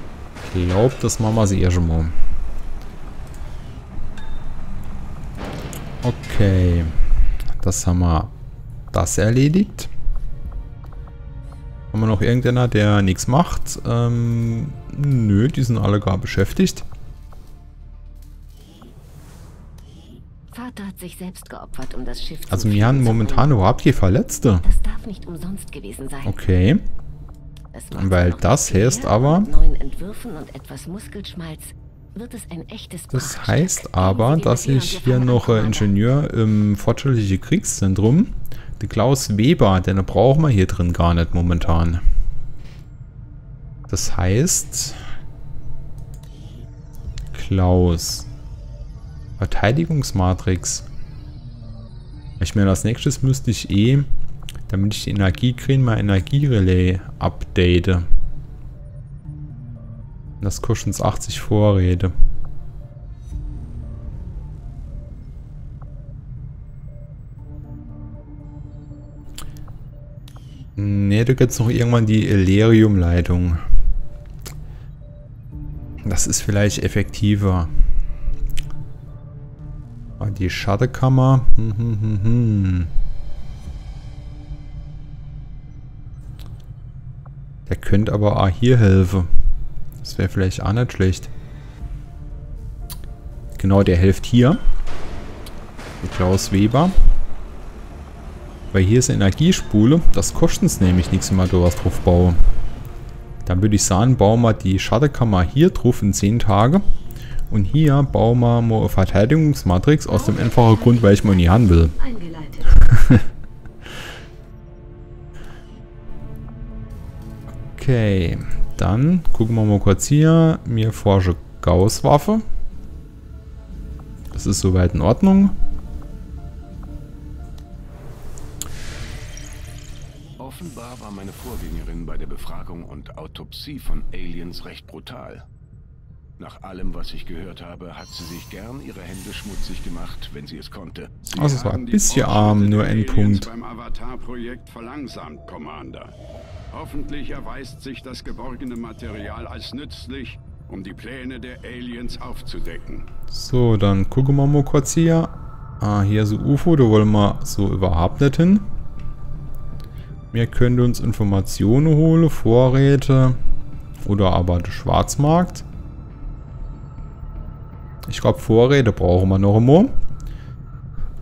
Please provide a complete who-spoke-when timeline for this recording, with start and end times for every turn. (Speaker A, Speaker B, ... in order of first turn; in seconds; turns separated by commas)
Speaker A: 0.4-2.1, Speaker A: 6.0-6.9, Speaker A: 7.6-8.3, Speaker A: 8.9-9.9, Speaker A: 11.9-16.9, Speaker B: 20.5-23.6, Speaker A: 22.5-24.6, Speaker B: 24.6-26.4, Speaker A: 26.2-26.8, Speaker B: 27.7-36.0, Speaker A: 27.9-29.5, Speaker A: 33.1-42.0, Speaker A: 43.9-45.0, Speaker A: 47.3-48.3, Speaker A: 49.4-50.9, Speaker A: 52.4-54.1, Speaker A: 54.7-58.1, Speaker A: 60.4-62.1, Speaker A: 70.8-73.6, Speaker A: 76.0-77.7, Speaker A: 80.2-82.9, Speaker A: 87.7-89.3, Speaker A: 90.0-91.3, Speaker A: 93.6-94.6, Speaker A: 96.0-97.0, Speaker A: 98.7-102.4, Speaker A: 103.5-106.8, Speaker A: 107.5-112.0, Speaker B: 110.1-112.9, Speaker A: 112.9-113.2, Speaker A: 117.7-122.5, Speaker A: 124.3-125.6, Speaker C: 130.4-135.5, Speaker C: 136.4-141.6, Speaker A: 141.3-143.5, Speaker D: 141.4-146.1, Speaker D: 146.7-153.1, Speaker A: 153.3-158.7, Speaker A: 160.3-163.4, Speaker A: 164.0-165.7, Speaker A: 168.1-170.0